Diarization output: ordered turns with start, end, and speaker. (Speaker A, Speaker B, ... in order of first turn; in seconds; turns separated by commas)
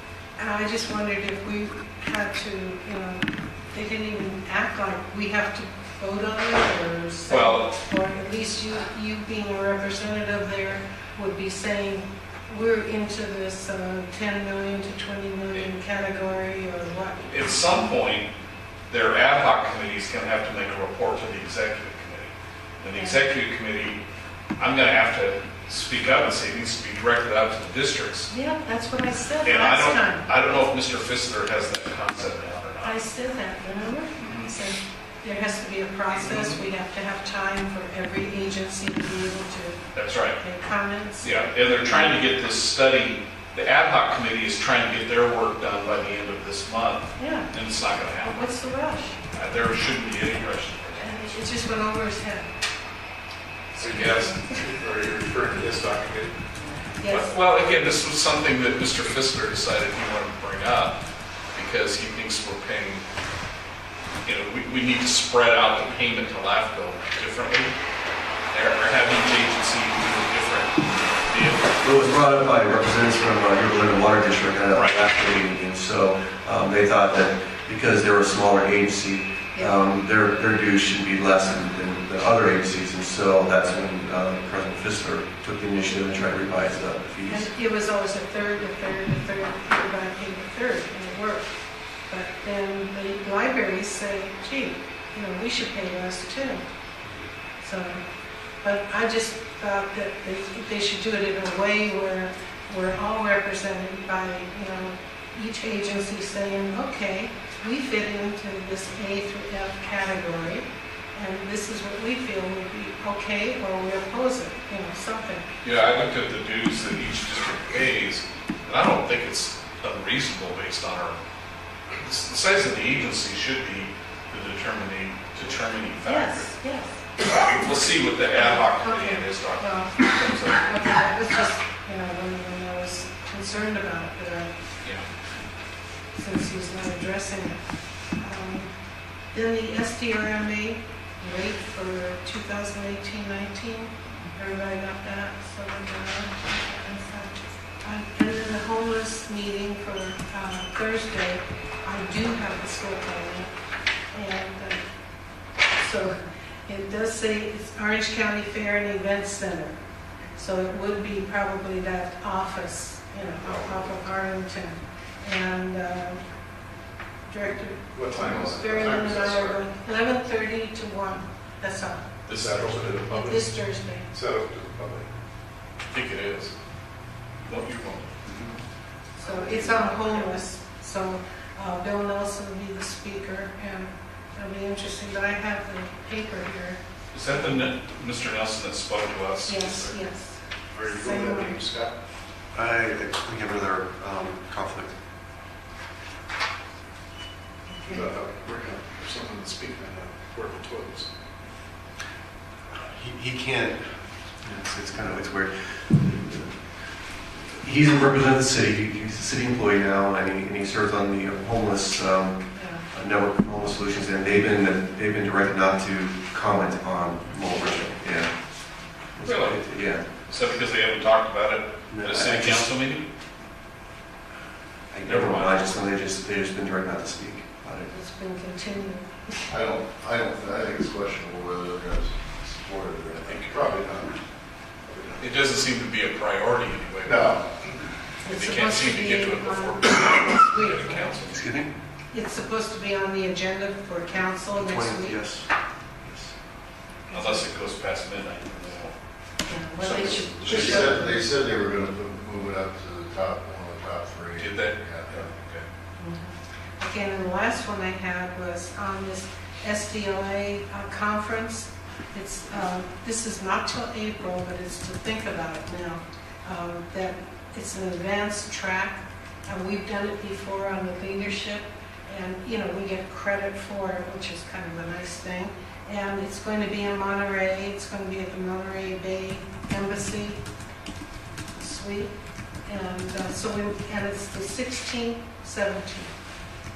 Speaker A: 0.4-17.2, Speaker B: 7.3-7.7, Speaker B: 17.2-18.3, Speaker B: 18.9-24.0, Speaker A: 22.9-23.2, Speaker B: 24.6-28.3, Speaker A: 28.3-30.3, Speaker B: 29.4-33.0, Speaker A: 32.8-39.8, Speaker B: 34.2-34.5, Speaker B: 36.1-36.6, Speaker B: 39.9-40.4, Speaker A: 40.4-41.3, Speaker B: 41.2-48.4, Speaker A: 47.2-47.5, Speaker A: 48.2-49.2, Speaker B: 49.3-51.1, Speaker A: 51.0-52.5, Speaker A: 53.7-54.6, Speaker C: 53.8-56.3, Speaker B: 53.8-54.3, Speaker A: 57.0-57.3, Speaker B: 57.1-61.0, Speaker B: 61.5-63.0, Speaker B: 64.2-67.7, Speaker B: 68.5-71.8, Speaker D: 71.8-87.5, Speaker B: 74.7-75.0, Speaker A: 87.2-91.5, Speaker A: 92.1-96.6, Speaker A: 97.6-98.0, Speaker A: 98.6-115.4, Speaker B: 115.6-121.2, Speaker B: 122.0-126.5, Speaker A: 126.0-127.0, Speaker B: 127.2-130.7, Speaker A: 128.3-134.5, Speaker A: 136.1-137.6, Speaker A: 138.2-138.7, Speaker A: 139.3-153.5, Speaker A: 154.1-154.8, Speaker A: 155.8-156.1, Speaker A: 156.7-159.7, Speaker A: 160.3-166.2, Speaker A: 167.3-172.1, Speaker C: 167.9-169.3, Speaker E: 168.1-169.6, Speaker B: 172.3-173.0, Speaker C: 172.3-173.5, Speaker A: 173.1-174.1, Speaker C: 174.1-175.1, Speaker B: 175.9-176.5, Speaker B: 177.4-178.1, Speaker A: 179.2-186.8, Speaker B: 179.2-180.1, Speaker B: 187.1-189.9, Speaker A: 189.4-191.6, Speaker C: 190.7-191.9, Speaker D: 192.5-194.9, Speaker A: 197.7-198.1, Speaker C: 197.9-201.1, Speaker D: 202.7-203.8, Speaker D: 204.4-206.6, Speaker D: 207.5-212.4, Speaker A: 212.5-212.8, Speaker D: 212.9-218.3, Speaker D: 219.2-220.0, Speaker B: 219.2-219.6, Speaker B: 220.3-223.1, Speaker D: 221.9-222.7, Speaker D: 224.9-227.9, Speaker B: 225.0-225.8, Speaker A: 227.9-229.4, Speaker E: 229.5-234.2, Speaker B: 233.2-233.5, Speaker E: 234.8-235.2, Speaker B: 235.2-237.4, Speaker E: 237.0-237.4, Speaker A: 238.2-241.2, Speaker B: 238.3-241.4, Speaker D: 241.2-241.7, Speaker A: 242.1-245.2, Speaker D: 244.5-245.5, Speaker D: 246.0-246.3, Speaker A: 247.1-247.4, Speaker B: 247.1-248.9, Speaker A: 249.4-251.3, Speaker B: 249.8-250.8, Speaker E: 250.3-255.2, Speaker B: 254.4-255.6, Speaker A: 256.0-280.4, Speaker A: 281.6-282.1, Speaker A: 282.7-286.1